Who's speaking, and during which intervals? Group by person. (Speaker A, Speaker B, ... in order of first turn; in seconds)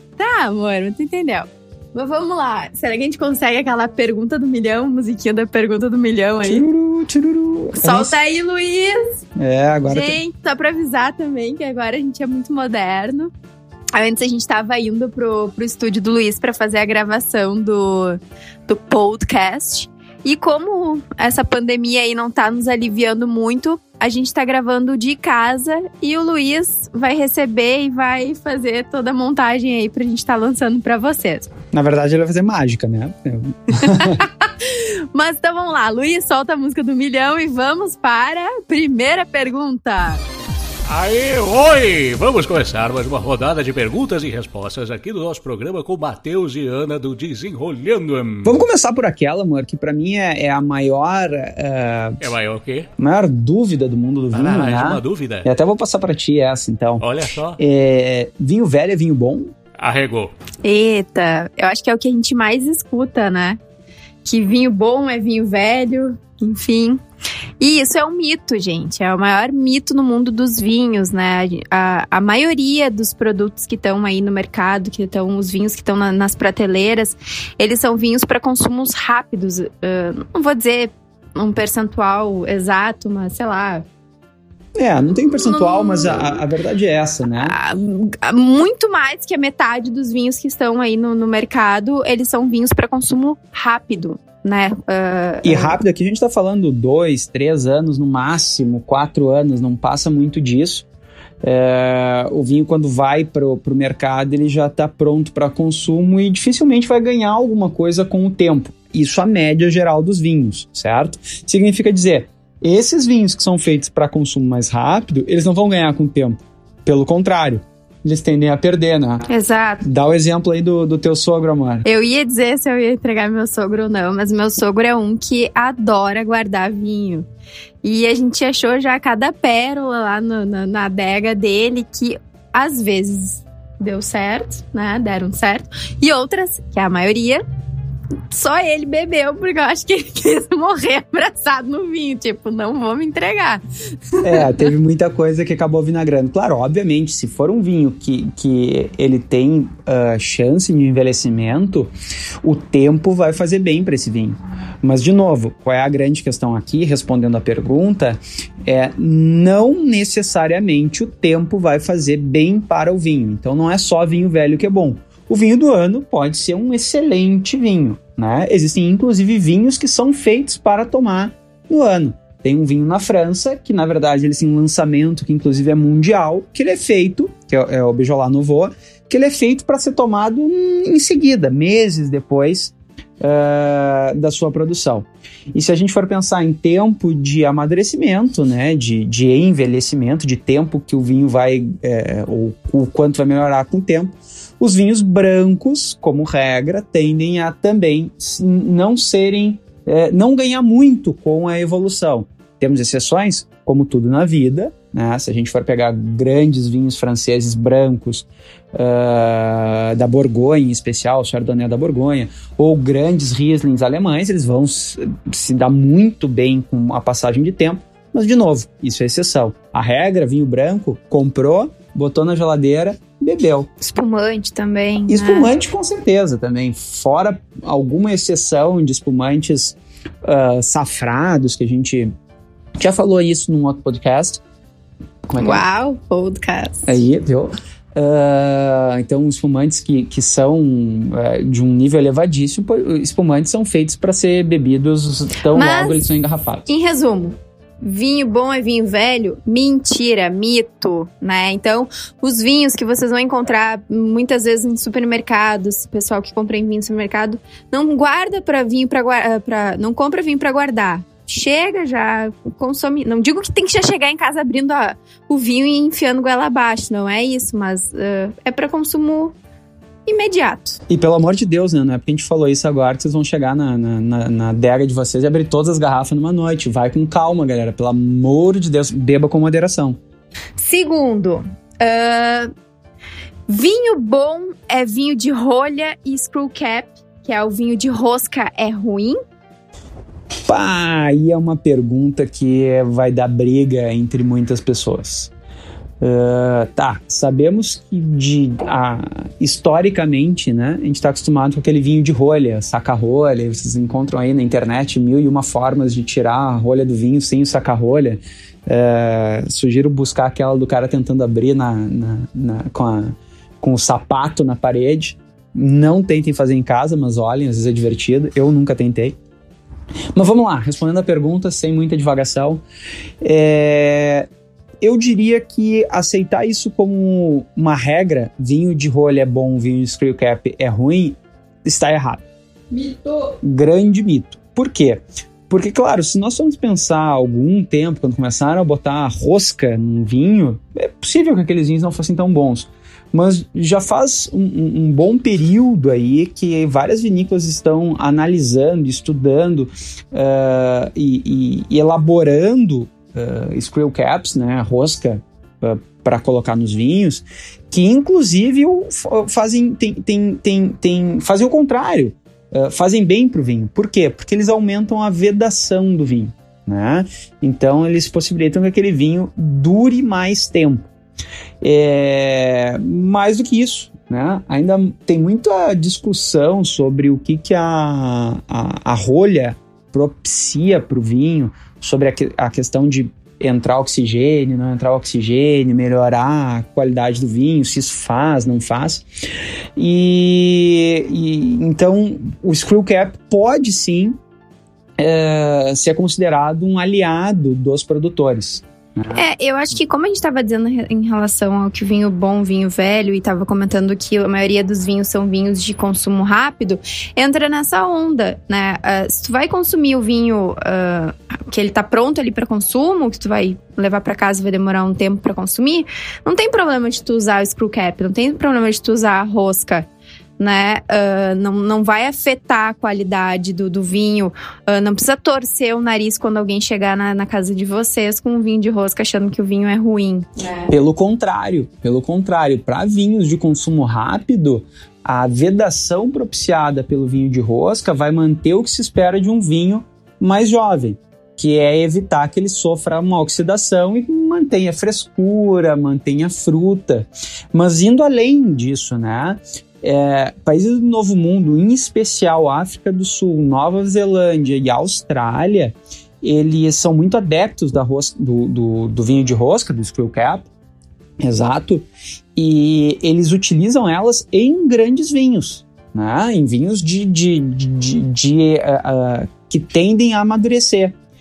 Speaker A: 0.2-6.6, 7.8-9.2, 9.9-13.3, 13.9-31.5, 33.8-40.2, 60.6-63.6, 64.2-67.0, 67.6-83.8, 85.3-86.4, 87.4-95.8, 119.3-119.8, 121.8-127.2, 127.8-137.4, 138.3-143.6, 144.2-144.6, 223.8-225.5, 235.4-236.9, 245.4-246.1, 246.7-269.3, 270.1-270.8, 280.6-282.5, 283.5-289.2, 332.7-333.3, 399.1-419.9, 420.4-430.7
Speaker B: 6.4-8.2, 9.4-10.2, 31.7-34.2, 48.4-52.2, 53.0-57.0, 57.6-59.5, 84.8-87.5, 95.4-100.8, 101.4-119.3, 119.8-121.8, 144.2-151.9, 152.4-223.7, 225.1-232.1, 232.8-234.4, 235.3-235.6, 236.8-246.7, 270.9-280.0, 290.5-295.3, 296.0-319.2, 320.1-322.6, 323.2-324.3, 324.8-332.2, 333.2-370.9, 371.6-389.0, 389.8-394.2, 395.0-399.2, 430.7-460.5, 461.2-471.0
Speaker C: 40.9-48.6, 52.2-52.9, 54.3-55.5, 57.0-57.6, 59.8-60.3